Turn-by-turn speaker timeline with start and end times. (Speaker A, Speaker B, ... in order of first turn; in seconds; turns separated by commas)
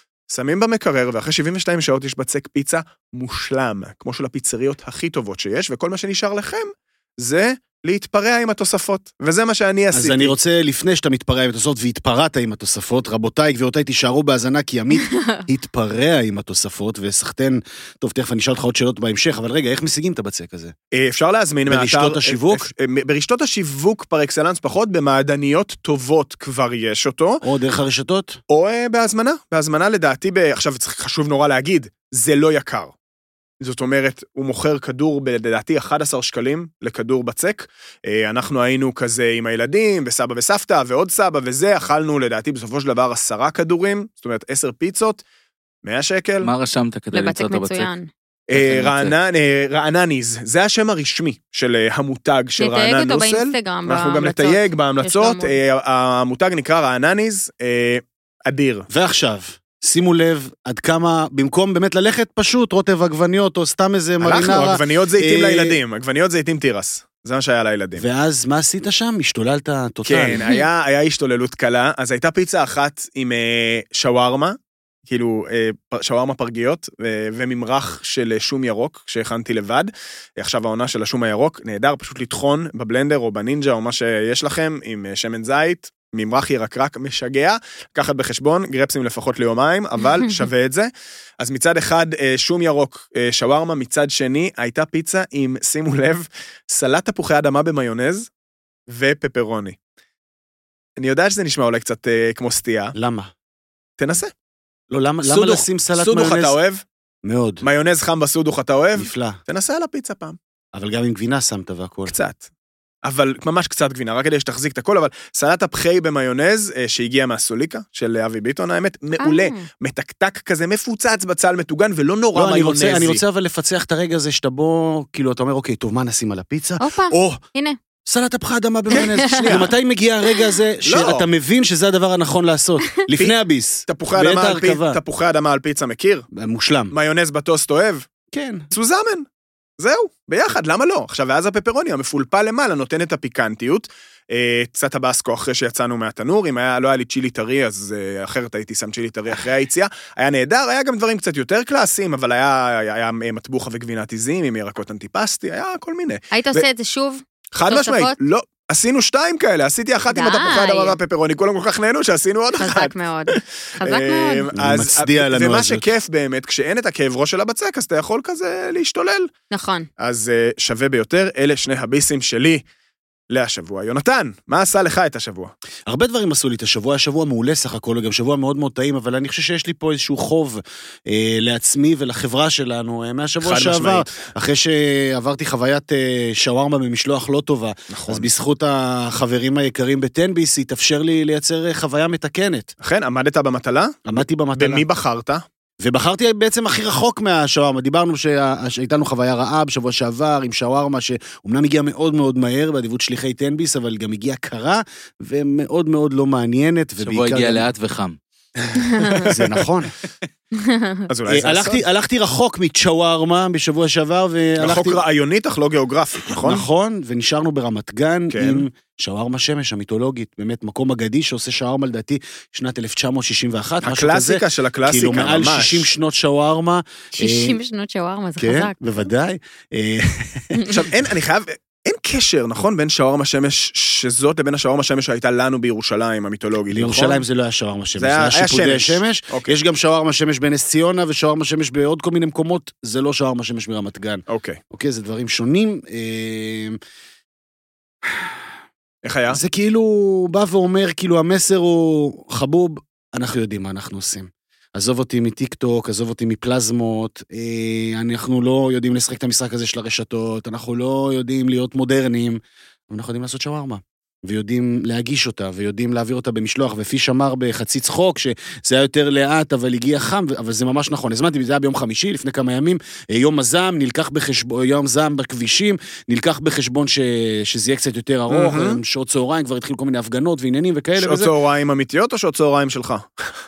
Speaker A: 0.3-10.3, Speaker B: 9.9-20.7, Speaker C: 15.0-15.4, Speaker A: 20.9-27.4, Speaker B: 21.7-22.7, Speaker B: 27.4-28.4, Speaker A: 28.5-32.9, Speaker A: 33.6-45.2, Speaker A: 45.8-46.5, Speaker D: 46.4-47.9, Speaker C: 47.1-48.1, Speaker A: 48.5-58.9, Speaker D: 48.5-49.1, Speaker C: 52.6-55.5, Speaker B: 58.9-65.8, Speaker A: 64.2-68.1, Speaker B: 68.0-70.4, Speaker A: 70.1-98.3, Speaker A: 98.9-99.8, Speaker A: 101.0-103.0, Speaker B: 103.0-103.3, Speaker A: 104.0-104.3, Speaker B: 104.9-106.6, Speaker A: 105.2-106.8, Speaker B: 107.2-107.6, Speaker A: 107.6-110.4, Speaker B: 109.0-109.4, Speaker B: 110.7-112.2, Speaker A: 112.1-112.5, Speaker A: 113.0-123.2, Speaker C: 119.2-119.7, Speaker B: 122.3-127.3, Speaker C: 126.8-127.8, Speaker B: 128.1-135.0, Speaker C: 128.9-129.6, Speaker A: 129.0-129.7, Speaker A: 130.8-131.3, Speaker A: 133.9-136.3, Speaker B: 136.3-136.9, Speaker A: 136.9-138.1, Speaker B: 138.3-138.7, Speaker A: 138.7-139.3, Speaker A: 139.8-156.7, Speaker C: 156.3-158.2, Speaker A: 157.5-169.3, Speaker C: 160.1-161.0, Speaker C: 162.6-164.5, Speaker B: 164.6-165.9, Speaker C: 169.5-169.9, Speaker A: 170.0-172.6, Speaker A: 173.3-175.5, Speaker B: 175.9-192.7, Speaker A: 183.4-184.2, Speaker A: 187.9-188.3, Speaker A: 192.8-195.4, Speaker B: 194.1-194.8, Speaker B: 195.8-207.7, Speaker D: 207.0-208.2, Speaker B: 209.2-209.9, Speaker C: 210.5-211.0, Speaker A: 211.1-211.8, Speaker B: 211.3-215.0, Speaker A: 214.6-216.7, Speaker B: 216.3-227.6, Speaker A: 218.3-218.7, Speaker A: 223.8-225.9, Speaker C: 227.2-229.1, Speaker B: 228.4-230.7, Speaker A: 230.7-237.2, Speaker B: 236.7-246.8, Speaker A: 238.0-239.5, Speaker A: 244.3-244.6, Speaker B: 248.0-248.4, Speaker A: 249.0-249.4, Speaker B: 249.3-281.3, Speaker A: 278.3-278.8, Speaker A: 281.0-283.1